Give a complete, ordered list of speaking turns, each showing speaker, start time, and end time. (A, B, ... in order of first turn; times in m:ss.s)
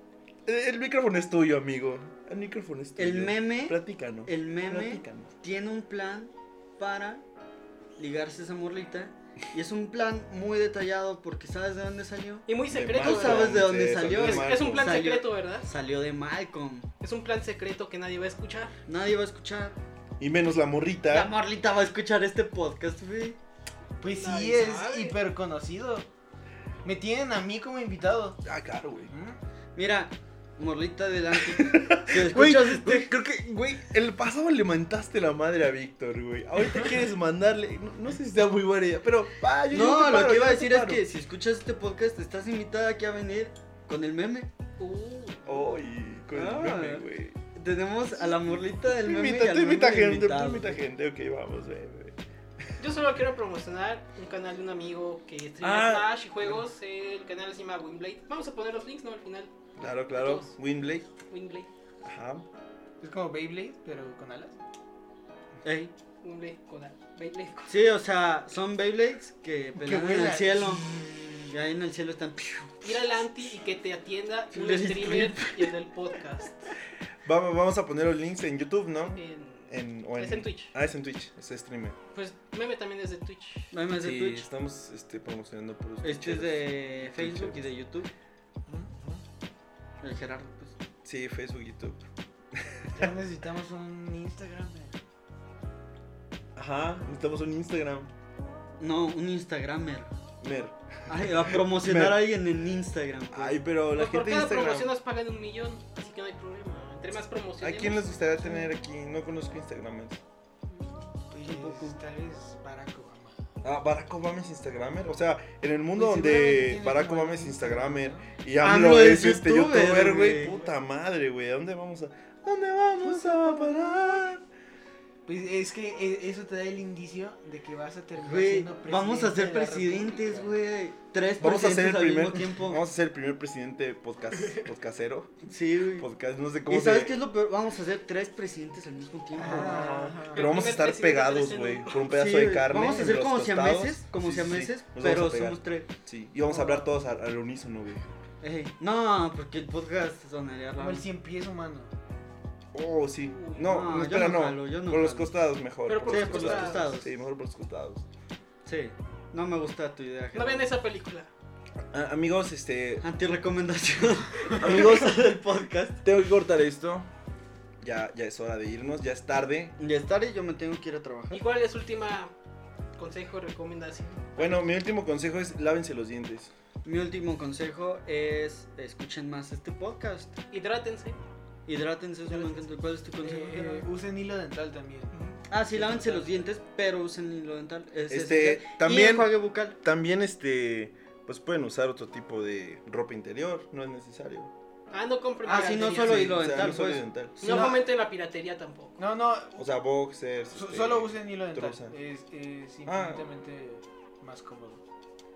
0:00.5-0:05.3 A
0:03.0-0:07.2 B
0:08.0-0:16.9 B
0:12.5-0:15.7 C
0:12.7-0:15.0 A
0:17.0-0:18.8 C
0:18.9-0:19.8 B
0:20.2-0:21.3 A
0:21.1-0:23.4 B
0:24.0-0:26.1 D
0:24.1-0:25.2 C
0:26.8-0:28.4 D
0:28.4-0:29.1 A
0:29.1-0:29.4 D
0:29.8-0:33.1 B
0:31.4-0:41.0 A
0:39.7-0:44.5 B
0:44.8-0:45.8 C
0:45.5-0:47.4 A
0:46.3-0:50.8 B
0:48.2-0:52.7 A
0:52.8-0:59.5 C
0:55.6-0:56.6 A
0:59.8-1:01.1 A
1:00.1-1:00.6 C
1:01.2-1:01.7 C
1:02.0-1:02.5 A
1:03.0-1:04.6 D
1:05.6-1:05.9 B
1:06.2-1:07.9 C
1:07.7-1:13.2 B
1:09.8-1:10.9 D
1:12.8-1:16.7 C
1:14.5-1:15.7 B
1:17.2-1:22.0 A
1:19.0-1:20.7 C
1:22.1-1:23.7 C
1:23.7-1:24.5 B
1:24.0-1:27.7 A
1:26.0-1:28.1 B
1:28.9-1:29.2 A
1:30.0-1:30.8 B
1:31.0-1:32.0 A
1:32.5-1:33.0 A
1:32.9-1:35.0 D
1:36.6-1:38.1 A
1:38.8-1:40.1 B
1:40.4-1:42.3 A
1:41.1-1:43.6 B
1:43.3-1:44.9 A
1:43.9-1:48.2 C
1:47.6-1:50.2 A
1:50.7-1:51.1 C
1:51.3-1:53.4 D
1:51.4-1:52.0 B
1:53.6-2:04.4 A
1:56.0-1:58.3 D
1:58.6-2:00.6 B
2:03.0-2:03.7 B
2:05.3-2:10.6 D
2:08.2-2:12.8 B
2:11.4-2:15.4 A
2:15.5-2:16.1 B
2:16.0-2:17.2 A
2:16.7-2:20.1 B
2:19.4-2:20.6 D
2:19.5-2:28.0 A
2:20.3-2:22.1 C
2:22.1-2:25.9 B
2:26.5-2:26.9 D
2:28.4-2:31.1 B
2:30.8-2:31.9 D
2:32.7-2:38.1 A
2:33.3-2:33.7 C
2:33.6-2:35.3 B
2:35.9-2:36.9 C
2:36.0-2:37.1 B
2:38.6-2:40.7 B
2:40.3-2:41.3 C
2:41.9-2:43.0 A
2:43.0-2:46.0 B
2:44.6-2:45.2 A
2:46.0-2:47.1 A
2:47.8-2:49.8 A
2:49.8-2:51.4 B
2:51.3-2:52.3 C
2:53.0-2:54.5 C
2:54.4-2:56.5 A
2:56.8-3:00.4 B
3:00.5-3:01.2 C
3:01.7-3:03.9 B
3:02.3-3:02.8 C
3:03.2-3:05.1 D
3:05.1-3:05.4 C
3:05.5-3:09.8 B
3:05.7-3:06.5 D
3:08.1-3:09.3 A
3:09.8-3:14.5 A
3:14.9-3:16.7 C
3:15.4-3:16.8 D
3:15.5-3:17.8 B
3:16.0-3:17.4 A
3:17.4-3:19.0 C
3:17.4-3:17.8 D
3:19.0-3:19.7 D
3:19.6-3:22.0 A
3:20.5-3:24.8 D
3:22.8-3:23.2 A